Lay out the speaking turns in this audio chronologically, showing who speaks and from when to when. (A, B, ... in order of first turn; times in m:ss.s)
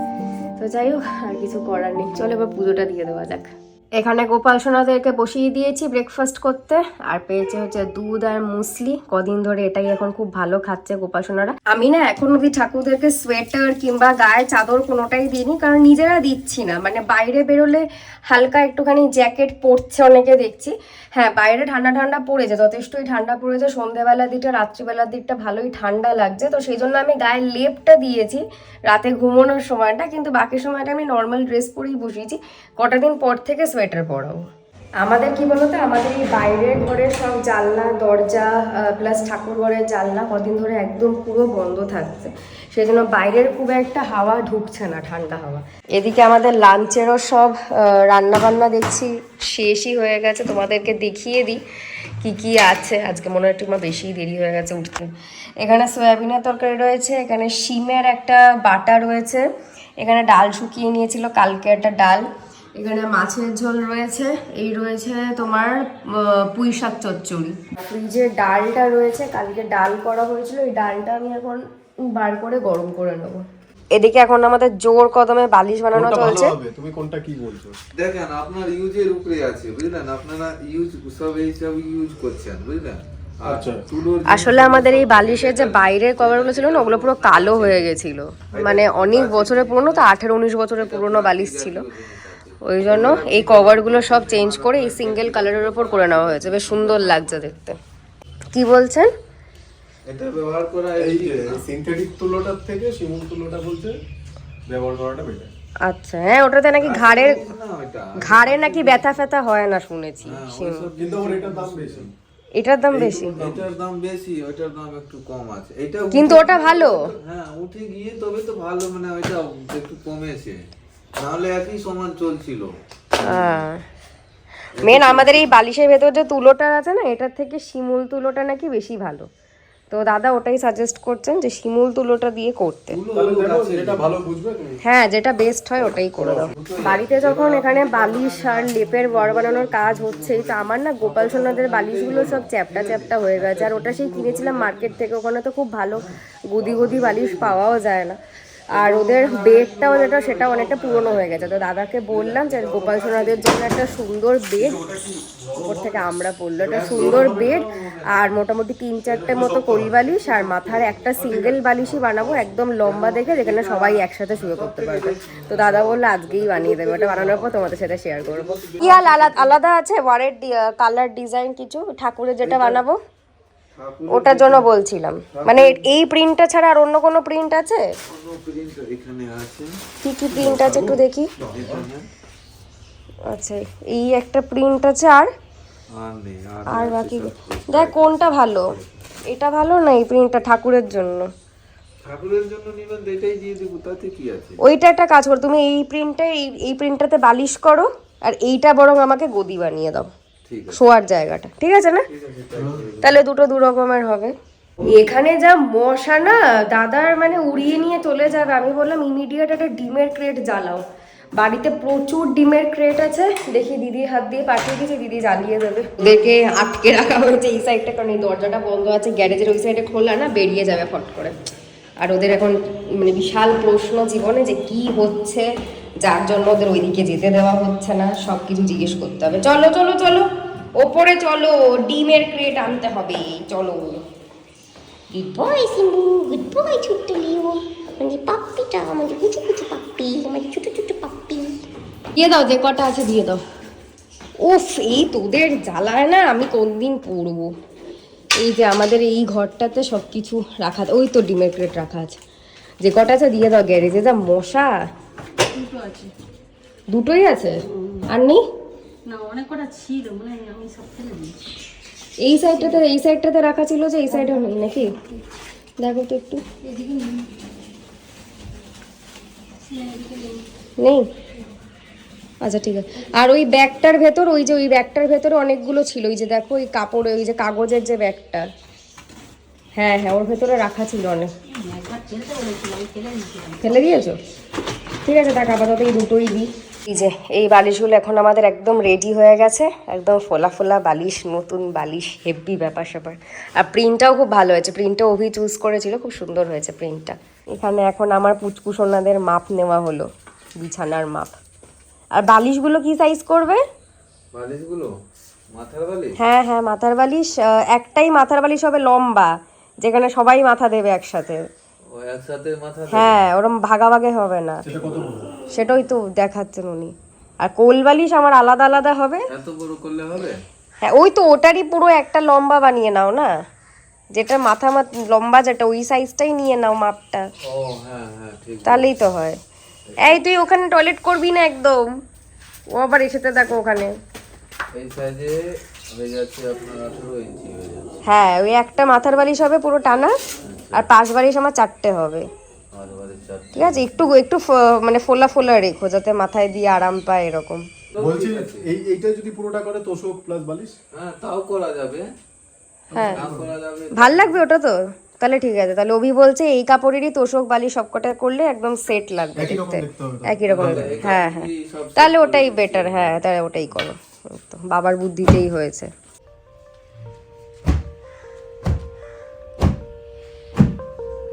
0:00.6-0:34.4 A
0:35.0-0:51.6 A
0:52.2-0:59.5 A
1:00.0-1:16.5 A
1:15.9-1:17.8 B
1:17.9-1:27.9 C
1:23.4-1:23.8 B
1:24.3-1:31.8 A
1:28.5-1:30.1 C
1:30.8-1:37.5 C
1:32.6-1:37.8 A
1:38.5-1:39.1 A
1:40.1-1:41.6 C
1:41.0-1:44.0 B
1:44.7-1:45.5 B
1:45.8-1:47.4 A
1:46.8-1:49.2 C
1:48.2-1:50.9 A
1:50.2-1:52.1 C
1:51.0-1:52.1 B
1:52.6-1:53.4 A
1:52.9-2:00.6 C
1:53.4-1:53.7 B
1:56.1-1:57.1 A
2:01.2-2:03.6 C
2:03.2-2:03.8 A
2:04.8-2:05.5 C
2:04.8-2:09.3 A
2:09.9-2:13.0 A
2:12.9-2:14.1 C
2:13.1-2:14.8 B
2:14.8-2:28.2 A
2:16.2-2:16.5 B
2:16.5-2:25.0 C
2:25.9-2:27.8 C
2:28.7-2:34.8 A
2:28.7-2:33.8 C
2:34.6-2:35.9 B
2:35.6-2:53.0 A
2:36.6-2:38.3 C
2:36.8-2:37.5 B
2:39.0-2:49.6 C
2:52.4-2:52.8 C
2:53.8-2:54.7 C
2:54.1-2:57.9 A
2:55.3-2:55.8 C
2:58.1-2:59.8 C
3:00.0-3:01.3 A
3:00.4-3:01.8 B
3:00.4-3:00.9 C
3:01.4-3:02.1 C
3:03.3-3:05.3 A
3:05.9-3:08.2 C
3:06.7-3:08.7 A
3:09.3-3:11.3 A
3:12.0-3:14.6 C
3:14.6-3:20.1 A
3:20.5-3:20.8 C
3:20.7-3:22.1 A
3:22.1-3:23.2 C
3:23.0-3:24.3 A
3:24.9-3:30.8 A
3:31.4-3:41.3 A
3:42.0-3:45.5 A
3:46.0-3:54.0 A
3:55.1-4:01.6 A
4:02.2-4:03.4 A
4:04.4-4:07.5 A
4:08.4-4:12.2 A
4:12.8-4:14.8 A
4:15.4-4:16.1 D
4:16.9-4:18.4 A
4:17.7-4:18.1 D
4:19.1-4:21.5 D
4:22.2-4:24.9 A
4:22.4-4:22.9 D
4:24.1-4:25.2 D
4:25.8-4:26.4 A
4:26.6-4:27.3 D
4:29.6-4:30.4 D
4:30.8-4:31.1 A
4:32.4-4:38.5 A
4:39.8-4:41.3 A
4:41.5-4:43.8 D
4:43.6-4:44.2 A
4:45.0-5:01.4 A
5:02.1-5:03.6 A
5:04.3-5:04.9 C
5:05.5-5:06.2 C
5:06.2-5:11.5 A
5:11.9-5:13.2 C
5:12.9-5:14.6 A
5:14.6-5:15.3 B
5:15.5-5:19.3 A
5:19.3-5:20.4 C
5:20.8-5:23.3 A
5:24.1-5:27.3 A
5:27.5-5:28.9 C
5:28.6-5:29.4 A
5:29.9-5:30.2 C
5:30.0-5:32.0 A
5:32.7-5:33.9 A
5:34.7-5:38.0 C
5:38.0-5:40.2 A
5:40.4-5:40.8 C
5:40.7-5:42.3 A
5:42.7-5:43.9 C
5:43.6-5:47.6 A
5:47.9-5:48.6 C
5:48.0-5:50.8 B
5:50.9-5:52.1 C
5:52.9-5:53.5 B
5:52.9-5:53.2 A
5:53.0-5:54.4 C
5:54.0-6:05.9 A
5:59.4-6:01.1 B
6:00.5-6:03.2 C